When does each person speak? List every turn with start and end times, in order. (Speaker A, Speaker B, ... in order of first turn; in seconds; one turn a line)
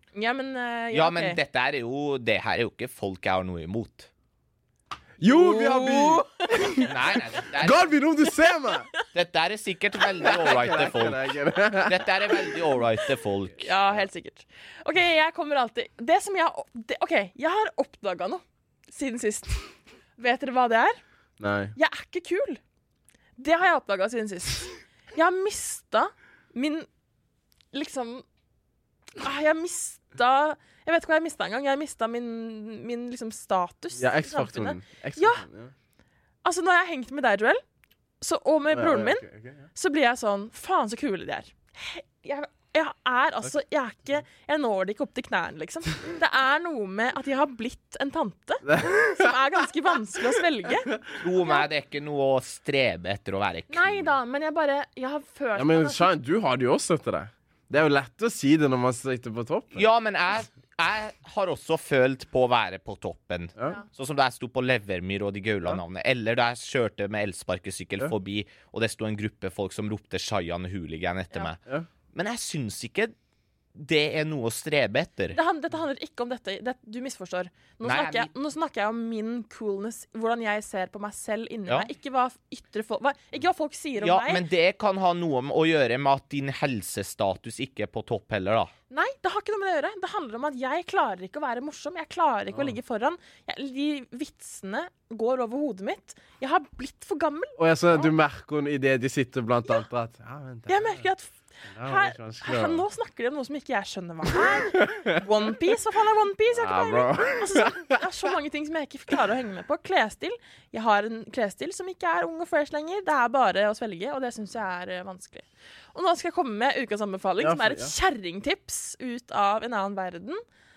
Speaker A: 0.1-1.4
Speaker B: 0.9-4.1
Speaker C: 5.2-7.0
Speaker A: 5.2-6.3
Speaker B: 6.8-8.0
Speaker C: 7.5-8.9
Speaker B: 9.1-13.7
Speaker C: 10.2-12.1
Speaker A: 13.6-21.0
Speaker C: 21.4-21.7
Speaker A: 21.8-22.6
Speaker A: 23.4-26.9
Speaker A: 27.7-28.2
Speaker A: 29.2-35.4
Speaker C: 34.0-35.7
Speaker A: 36.4-37.6
Speaker A: 38.2-51.6
Speaker C: 38.7-39.7
Speaker C: 48.6-49.3
Speaker B: 51.2-54.1
Speaker A: 53.7-56.1
Speaker C: 55.5-59.9
Speaker B: 59.8-71.6
Speaker B: 72.1-73.1
Speaker B: 73.7-75.4
Speaker A: 75.3-84.4
Speaker B: 77.8-78.3
Speaker B: 84.0-88.7
Speaker A: 88.9-98.1
Speaker C: 97.6-101.0
Speaker A: 100.7-120.4
Speaker C: 101.7-102.8
Speaker C: 106.5-108.0
Speaker C: 117.4-117.9